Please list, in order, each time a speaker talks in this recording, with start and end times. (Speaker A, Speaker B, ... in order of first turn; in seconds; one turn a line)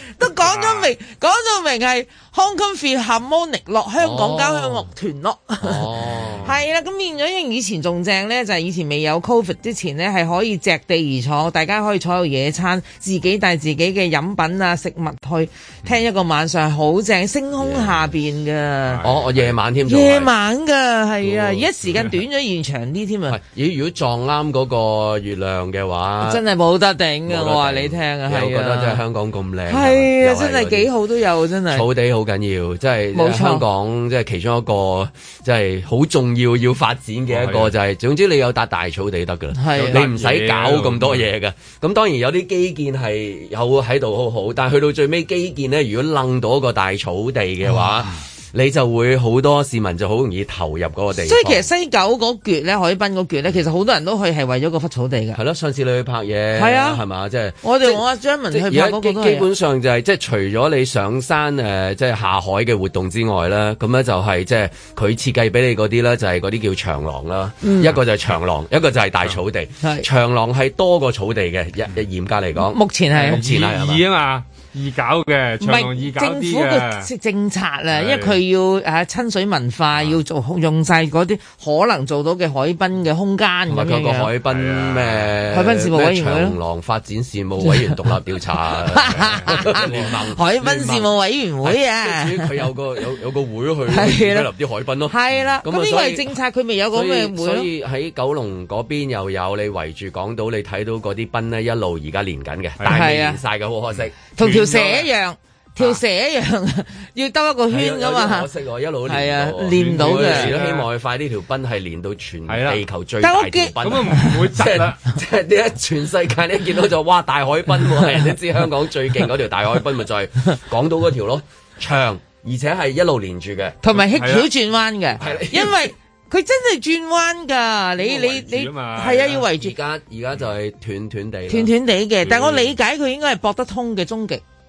Speaker A: 0.2-5.9
Speaker B: 0.4-0.9
Speaker C: 4.0-4.9
Speaker C: 5.6-6.5
Speaker A: 6.4-19.0
Speaker C: 17.6-18.1
Speaker B: 18.9-19.6
Speaker C: 19.0-20.3
Speaker A: 19.9-23.4
Speaker C: 21.2-21.7
Speaker C: 23.3-26.4
Speaker A: 26.2-29.0
Speaker C: 27.3-30.9
Speaker A: 29.7-31.9
Speaker C: 31.7-51.6
Speaker A: 33.1-33.6
Speaker B: 37.3-37.7
Speaker A: 39.5-40.0
Speaker B: 39.7-41.3
Speaker A: 51.2-55.4
Speaker C: 55.3-74.0
Speaker A: 56.5-57.0
Speaker A: 57.6-59.5
Speaker A: 67.6-67.9
Speaker A: 72.6-73.4
Speaker B: 73.1-77.1
Speaker A: 75.6-84.3
Speaker B: 77.9-78.4
Speaker C: 83.7-91.1
Speaker B: 84.5-85.4
Speaker A: 85.5-86.5
Speaker A: 88.9-92.6
Speaker B: 89.0-90.2
Speaker C: 91.6-96.3
Speaker A: 93.9-94.5
Speaker A: 95.1-97.7
Speaker C: 96.9-104.1
Speaker B: 102.8-103.1
Speaker A: 102.9-103.4
Speaker A: 104.4-108.5
Speaker B: 104.4-105.1
Speaker C: 107.7-123.8
Speaker A: 109.1-110.6
Speaker B: 109.7-110.8
Speaker B: 112.5-112.8
Speaker A: 113.2-114.3
Speaker B: 113.8-115.0
Speaker A: 123.8-129.7
Speaker B: 123.9-124.5
Speaker C: 125.2-125.9
Speaker B: 128.0-129.4
Speaker C: 129.5-131.7
Speaker A: 131.5-134.4
Speaker B: 132.2-132.7